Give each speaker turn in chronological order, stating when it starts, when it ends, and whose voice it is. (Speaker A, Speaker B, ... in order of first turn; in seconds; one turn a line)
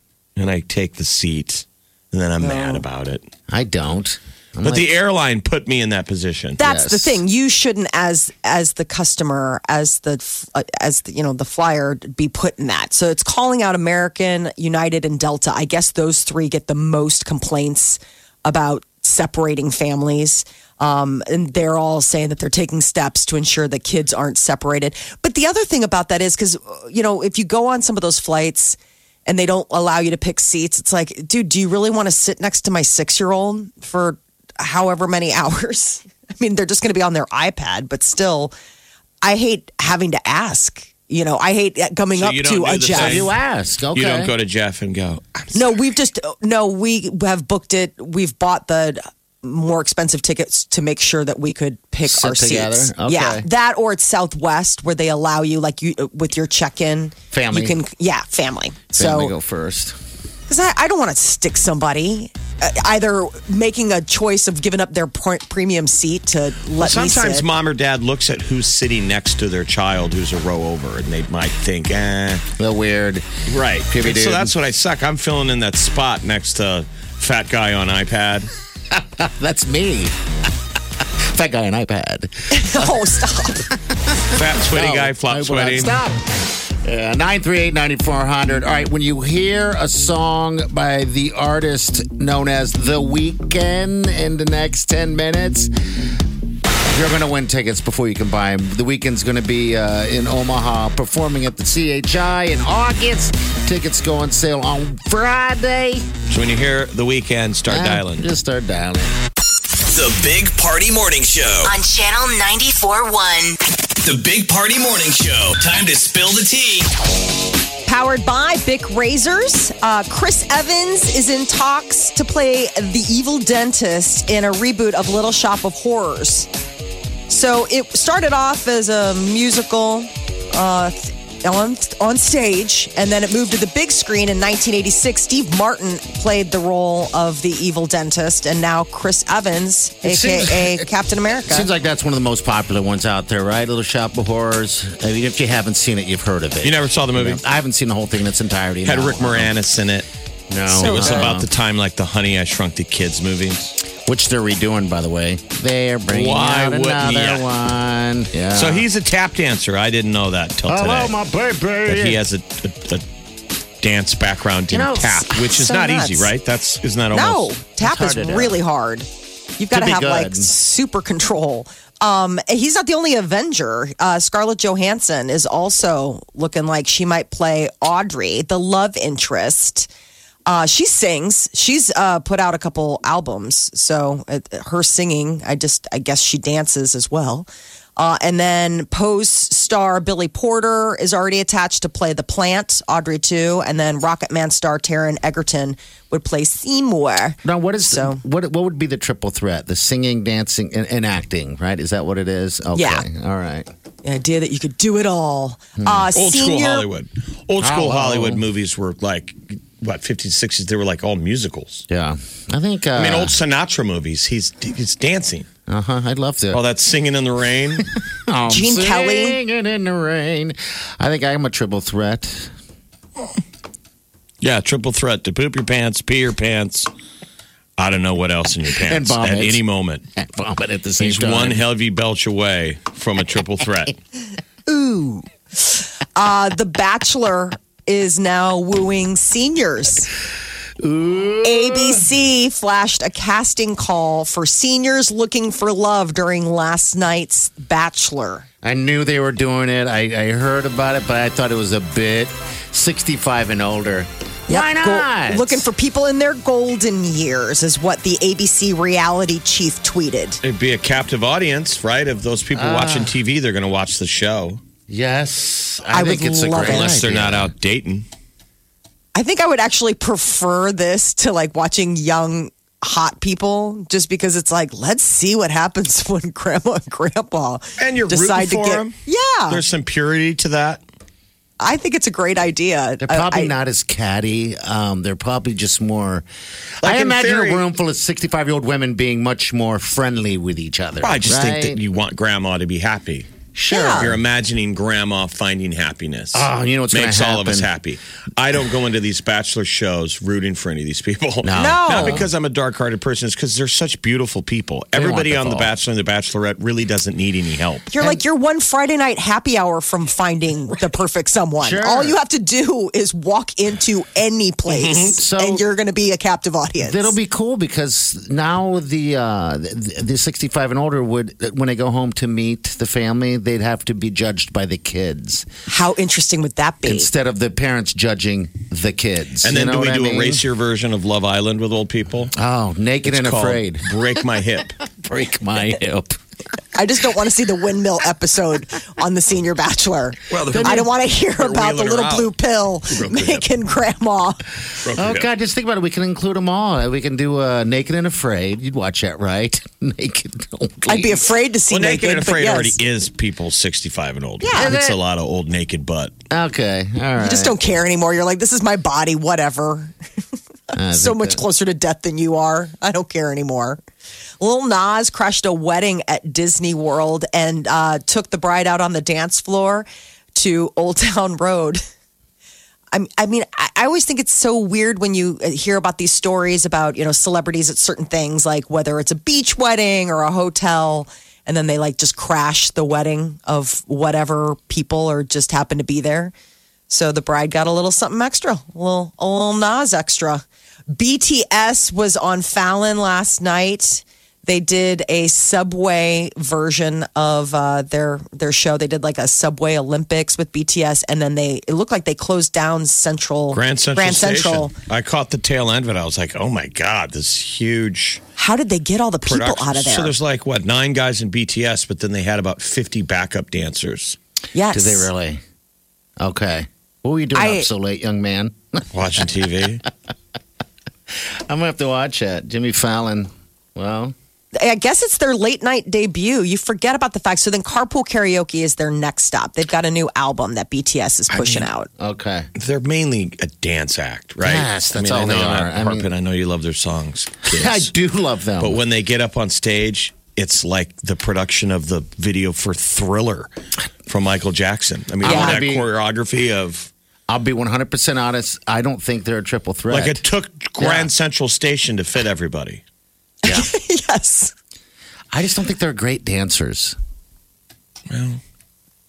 Speaker A: 0.4-3.2
Speaker B: 2.4-2.8
Speaker C: 3.5-4.9
Speaker A: 4.6-6.6
Speaker B: 6.6-38.5
Speaker C: 6.6-7.2
Speaker B: 39.2-43.2
Speaker A: 42.1-43.3
Speaker C: 42.9-44.3
Speaker A: 43.9-45.8
Speaker B: 45.5-59.3
Speaker C: 52.0-53.5
Speaker C: 57.3-57.8
Speaker C: 58.9-60.0
Speaker B: 60.5-67.5
Speaker A: 66.8-72.4
Speaker C: 72.6-73.2
Speaker A: 73.5-78.5
Speaker C: 73.9-74.5
Speaker C: 78.9-80.1
Speaker C: 81.3-83.0
Speaker B: 82.5-83.7
Speaker C: 84.1-86.2
Speaker A: 84.3-85.9
Speaker C: 86.8-95.7
Speaker C: 96.9-106.1
Speaker A: 106.3-108.3
Speaker C: 107.7-109.1
Speaker D: 109.9-111.7
Speaker E: 111.6-113.6
Speaker D: 114.0-116.9
Speaker B: 117.9-126.5
Speaker B: 127.3-141.7
Speaker C: 140.0-140.9
Speaker C: 141.5-149.5
Speaker A: 146.6-147.4
Speaker A: 148.8-150.1
Speaker C: 150.5-151.5
Speaker A: 150.7-153.7
Speaker B: 150.8-151.3
Speaker C: 154.0-158.9
Speaker A: 156.1-157.4
Speaker A: 158.5-161.1
Speaker C: 160.7-162.2
Speaker A: 161.8-163.0
Speaker A: 163.8-167.5
Speaker C: 164.7-165.3
Speaker B: 165.3-166.3
Speaker B: 167.1-179.9
Speaker C: 167.8-168.6
Speaker C: 169.7-170.5
Speaker B: 180.5-198.2
Speaker C: 197.4-203.7
Speaker B: 202.7-203.1
Speaker B: 204.0-206.8
Speaker C: 205.8-206.1
Speaker A: 206.1-211.8
Speaker C: 207.6-208.4
Speaker C: 211.9-213.3
Speaker A: 212.9-215.5
Speaker C: 215.7-216.6
Speaker A: 216.5-217.8
Speaker C: 217.8-222.5
Speaker B: 218.5-219.4
Speaker A: 224.4-226.9
Speaker A: 227.8-230.0
Speaker C: 228.8-229.6
Speaker C: 230.2-231.6
Speaker A: 231.0-234.0
Speaker B: 234.7-240.1
Speaker C: 240.8-242.1
Speaker B: 241.4-248.4
Speaker C: 248.6-255.7
Speaker B: 254.5-260.4
Speaker A: 260.4-264.6
Speaker C: 262.5-263.1
Speaker C: 264.9-267.5
Speaker B: 265.9-266.9
Speaker A: 266.6-268.1
Speaker B: 269.1-279.6
Speaker A: 277.8-278.9
Speaker A: 279.5-280.8
Speaker B: 281.6-283.5
Speaker C: 283.0-286.2
Speaker C: 286.8-291.8
Speaker A: 286.8-287.6
Speaker A: 291.0-293.3
Speaker C: 293.5-294.1
Speaker B: 293.7-294.1
Speaker A: 293.9-307.9
Speaker C: 296.3-297.7
Speaker C: 301.4-302.3
Speaker B: 301.5-302.2
Speaker C: 304.9-305.7
Speaker B: 307.9-317.1
Speaker C: 311.6-312.1
Speaker A: 314.7-315.2
Speaker C: 315.2-315.6
Speaker C: 316.8-325.5
Speaker B: 325.7-327.1
Speaker C: 326.8-330.4
Speaker A: 329.4-332.3
Speaker C: 332.3-334.0
Speaker A: 333.0-334.8
Speaker C: 335.0-336.2
Speaker B: 336.7-344.4
Speaker A: 340.3-342.3
Speaker A: 342.9-343.4
Speaker A: 344.8-345.3
Speaker C: 344.9-351.2
Speaker B: 350.9-352.8
Speaker A: 351.7-356.1
Speaker B: 354.4-354.7
Speaker C: 354.5-355.0
Speaker C: 356.3-357.5
Speaker B: 357.2-359.9
Speaker C: 360.7-361.4
Speaker B: 360.9-363.8
Speaker B: 364.4-371.8
Speaker B: 372.9-386.3
Speaker B: 386.9-404.7
Speaker A: 403.5-408.2
Speaker B: 408.4-410.1
Speaker A: 409.2-414.2
Speaker B: 414.5-415.1
Speaker C: 414.7-415.4
Speaker C: 416.2-419.2
Speaker B: 417.3-417.6
Speaker A: 418.9-419.8
Speaker C: 421.5-424.1
Speaker B: 424.6-431.9
Speaker A: 431.3-431.7
Speaker C: 432.0-432.5
Speaker A: 432.6-437.9
Speaker C: 434.4-436.1
Speaker C: 437.5-438.8
Speaker A: 438.6-443.5
Speaker A: 444.1-446.9
Speaker C: 445.2-445.9
Speaker B: 445.2-445.6
Speaker C: 447.3-450.2
Speaker A: 449.9-452.8
Speaker C: 450.8-451.1
Speaker B: 453.4-454.5
Speaker C: 455.3-456.9
Speaker A: 458.1-458.4